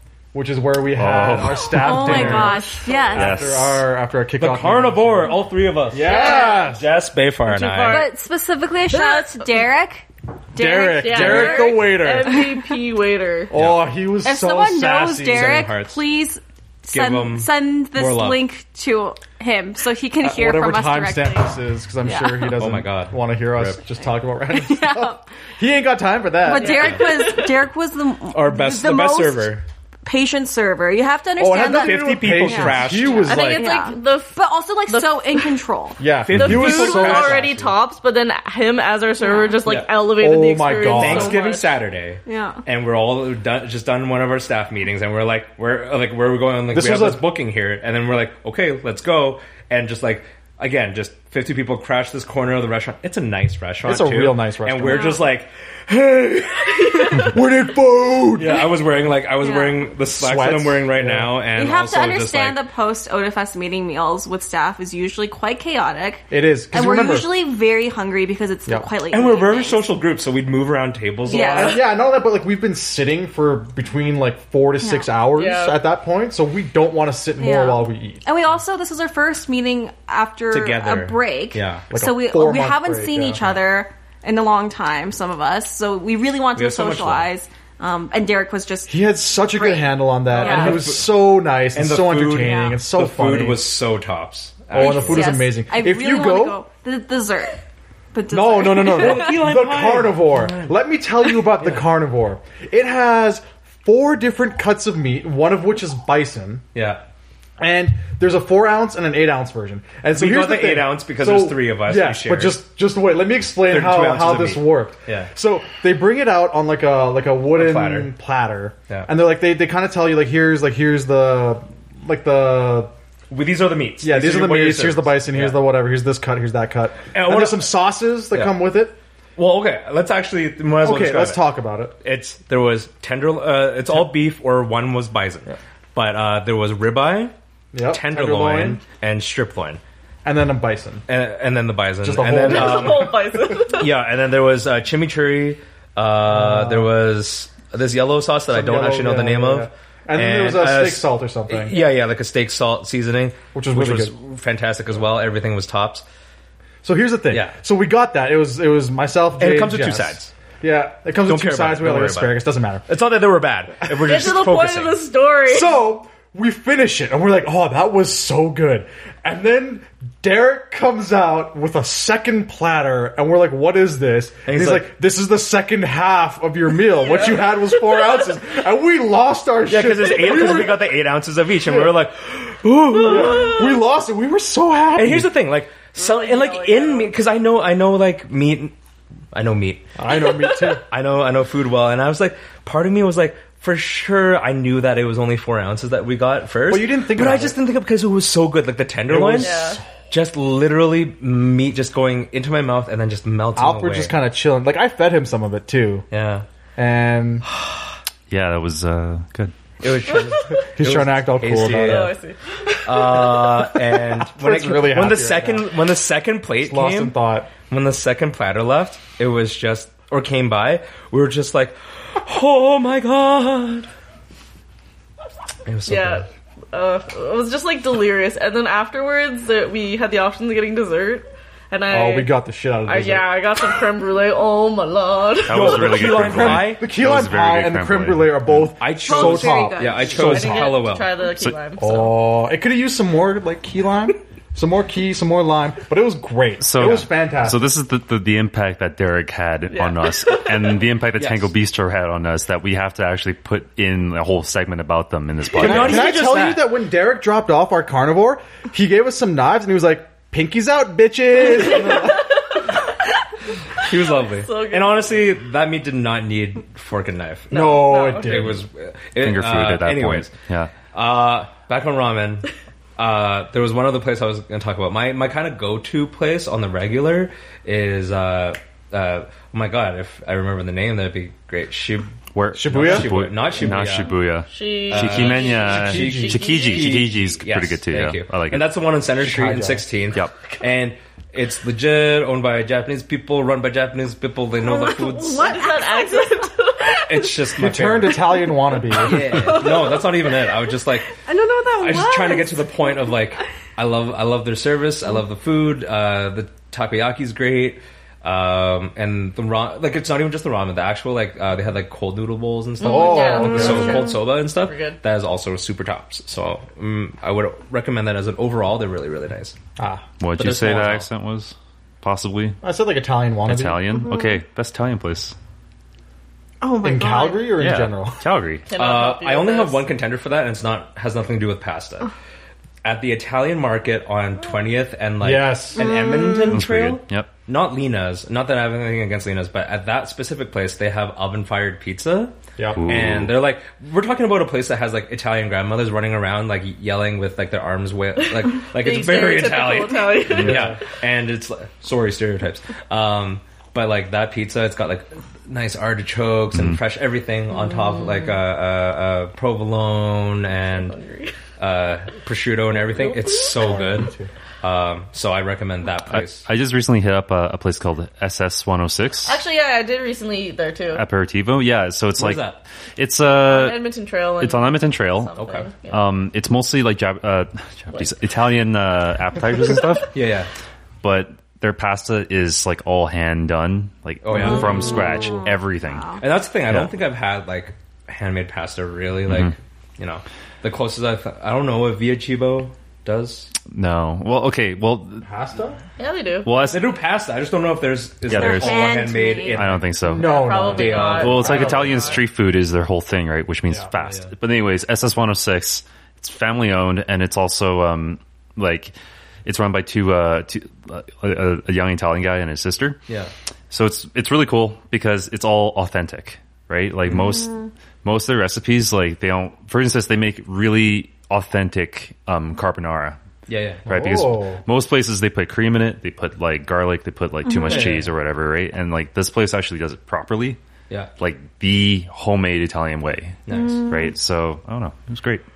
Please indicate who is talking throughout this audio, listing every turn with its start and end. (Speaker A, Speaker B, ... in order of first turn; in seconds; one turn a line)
Speaker A: 0.3-6.9
Speaker B: 0.9-2.5
Speaker C: 1.7-3.4
Speaker D: 2.4-3.2
Speaker B: 3.1-3.9
Speaker E: 4.4-8.1
Speaker D: 6.0-6.7
Speaker C: 6.0-6.6
Speaker D: 7.4-8.2
Speaker C: 7.8-12.0
Speaker D: 8.9-9.6
Speaker A: 10.5-12.5
Speaker D: 11.0-13.5
Speaker A: 13.5-15.7
Speaker E: 13.5-13.9
Speaker C: 14.2-22.6
Speaker E: 15.2-16.0
Speaker E: 16.9-18.4
Speaker A: 20.2-26.9
Speaker E: 22.6-23.8
Speaker C: 24.5-25.3
Speaker C: 26.4-36.0
Speaker D: 26.5-27.5
Speaker E: 28.3-29.6
Speaker A: 31.4-33.7
Speaker E: 31.5-33.6
Speaker D: 33.2-35.6
Speaker A: 36.0-37.5
Speaker E: 36.2-37.7
Speaker D: 36.3-41.7
Speaker C: 39.2-39.6
Speaker E: 39.6-39.9
Speaker A: 40.1-41.4
Speaker E: 40.8-57.4
Speaker C: 42.2-42.6
Speaker A: 46.7-47.2
Speaker A: 53.8-55.1
Speaker C: 54.8-55.2
Speaker A: 57.2-58.7
Speaker E: 58.4-62.6
Speaker C: 59.4-59.8
Speaker A: 60.1-61.4
Speaker C: 61.5-69.9
Speaker A: 66.3-67.3
Speaker E: 69.1-71.8
Speaker C: 71.3-71.8
Speaker A: 71.3-78.2
Speaker C: 74.8-75.1
Speaker D: 75.3-75.8
Speaker C: 77.4-90.9
Speaker E: 80.5-81.9
Speaker A: 81.9-83.6
Speaker E: 86.5-87.3
Speaker A: 88.9-93.7
Speaker E: 90.3-91.1
Speaker E: 91.7-95.4
Speaker C: 92.4-92.8
Speaker A: 94.7-96.6
Speaker C: 94.8-97.6
Speaker C: 98.1-99.4
Speaker A: 98.3-106.6
Speaker E: 98.4-100.8
Speaker E: 106.7-107.0
Speaker A: 107.6-122.9
Speaker E: 110.1-112.6
Speaker E: 113.7-115.3
Speaker E: 117.5-118.1
Speaker E: 123.3-125.6
Speaker A: 124.0-128.9
Speaker E: 127.1-128.7
Speaker E: 129.3-131.4
Speaker A: 130.8-131.9
Speaker E: 132.0-137.3
Speaker A: 137.7-138.8
Speaker E: 137.9-139.8
Speaker A: 140.2-141.1
Speaker E: 141.1-156.0
Speaker A: 142.0-143.3
Speaker D: 142.4-143.9
Speaker A: 146.3-146.9
Speaker A: 148.5-151.7
Speaker A: 153.5-154.1
Speaker A: 156.8-162.9
Speaker E: 157.3-157.5
Speaker E: 159.4-160.3
Speaker E: 161.2-165.0
Speaker D: 163.9-165.8
Speaker A: 165.5-181.0
Speaker E: 174.4-174.9
Speaker D: 177.1-177.4
Speaker E: 179.7-183.8
Speaker A: 181.6-181.9
Speaker A: 183.0-185.3
Speaker E: 184.9-188.7
Speaker D: 185.9-187.1
Speaker E: 189.3-189.9
Speaker A: 190.0-190.8
Speaker E: 190.8-199.6
Speaker A: 196.7-197.6
Speaker A: 199.1-199.8
Speaker D: 199.4-199.8
Speaker E: 200.1-204.1
Speaker A: 203.5-206.1
Speaker E: 206.1-206.4
Speaker A: 206.8-207.4
Speaker B: 208.3-209.5
Speaker E: 209.8-212.2
Speaker D: 210.1-210.7
Speaker A: 210.7-212.1
Speaker D: 211.5-213.5
Speaker E: 212.8-223.9
Speaker A: 213.8-215.8
Speaker A: 216.6-217.5
Speaker E: 225.6-226.2
Speaker D: 225.8-232.3
Speaker A: 231.9-233.3
Speaker D: 232.8-235.9
Speaker B: 235.4-238.7
Speaker E: 235.5-236.9
Speaker A: 235.9-240.8
Speaker E: 238.8-241.1
Speaker C: 239.0-240.2
Speaker D: 240.1-242.2
Speaker A: 241.8-247.7
Speaker B: 246.6-256.1
Speaker D: 249.7-250.7
Speaker E: 251.2-251.5
Speaker E: 255.5-256.7
Speaker A: 255.5-262.3
Speaker E: 261.7-262.1
Speaker E: 263.8-270.3
Speaker D: 264.2-265.2
Speaker D: 267.5-268.4
Speaker A: 267.5-268.6
Speaker B: 269.2-270.7
Speaker E: 270.9-282.1
Speaker B: 282.3-288.8
Speaker A: 282.5-283.2
Speaker E: 282.7-284.3
Speaker D: 284.5-287.0
Speaker E: 284.9-295.5
Speaker A: 285.7-286.4
Speaker A: 289.1-289.9
Speaker C: 294.6-296.5
Speaker D: 294.7-297.5
Speaker E: 297.0-301.1
Speaker A: 297.6-299.6
Speaker D: 298.9-300.5
Speaker C: 301.2-303.2
Speaker E: 301.8-319.6
Speaker D: 312.8-315.0
Speaker A: 312.9-314.0
Speaker C: 312.9-314.1
Speaker A: 319.8-320.1
Speaker B: 320.2-322.6
Speaker E: 320.4-321.1
Speaker A: 322.6-323.9
Speaker B: 323.4-325.3
Speaker C: 324.0-324.4
Speaker C: 326.6-327.6
Speaker A: 326.8-328.2
Speaker B: 327.6-328.7
Speaker D: 328.7-329.9
Speaker E: 328.7-332.1
Speaker E: 332.8-361.0
Speaker A: 335.2-336.3
Speaker C: 335.8-336.6
Speaker B: 336.5-337.3
Speaker A: 342.6-342.9
Speaker B: 342.7-343.4
Speaker D: 348.7-350.7
Speaker A: 350.3-350.8
Speaker B: 356.5-356.8
Speaker D: 360.6-361.4
Speaker E: 361.6-366.5
Speaker D: 363.0-363.8
Speaker A: 363.4-364.3
Speaker B: 366.1-369.4
Speaker D: 369.2-371.0
Speaker B: 370.9-373.8
Speaker E: 372.1-372.6
Speaker D: 373.2-376.0
Speaker B: 374.4-380.1
Speaker E: 375.4-375.7
Speaker E: 380.1-380.5
Speaker B: 381.0-386.9
Speaker E: 384.2-385.1
Speaker C: 385.4-386.2
Speaker E: 386.2-393.5
Speaker B: 389.3-389.5
Speaker B: 393.7-395.2
Speaker A: 395.2-395.8
Speaker D: 396.0-396.5
Speaker B: 396.4-396.8
Speaker E: 396.6-399.9
Speaker B: 398.2-408.9
Speaker C: 398.3-399.7
Speaker A: 400.0-402.2
Speaker D: 400.1-402.2
Speaker E: 400.6-401.6
Speaker E: 404.0-404.3
Speaker B: 409.4-413.0
Speaker B: 413.7-423.2
Speaker E: 423.5-423.9
Speaker A: 423.9-424.6
Speaker B: 423.9-430.6
Speaker C: 427.5-427.9
Speaker E: 427.6-428.1
Speaker B: 431.2-435.4
Speaker E: 433.5-433.9
Speaker C: 433.5-434.1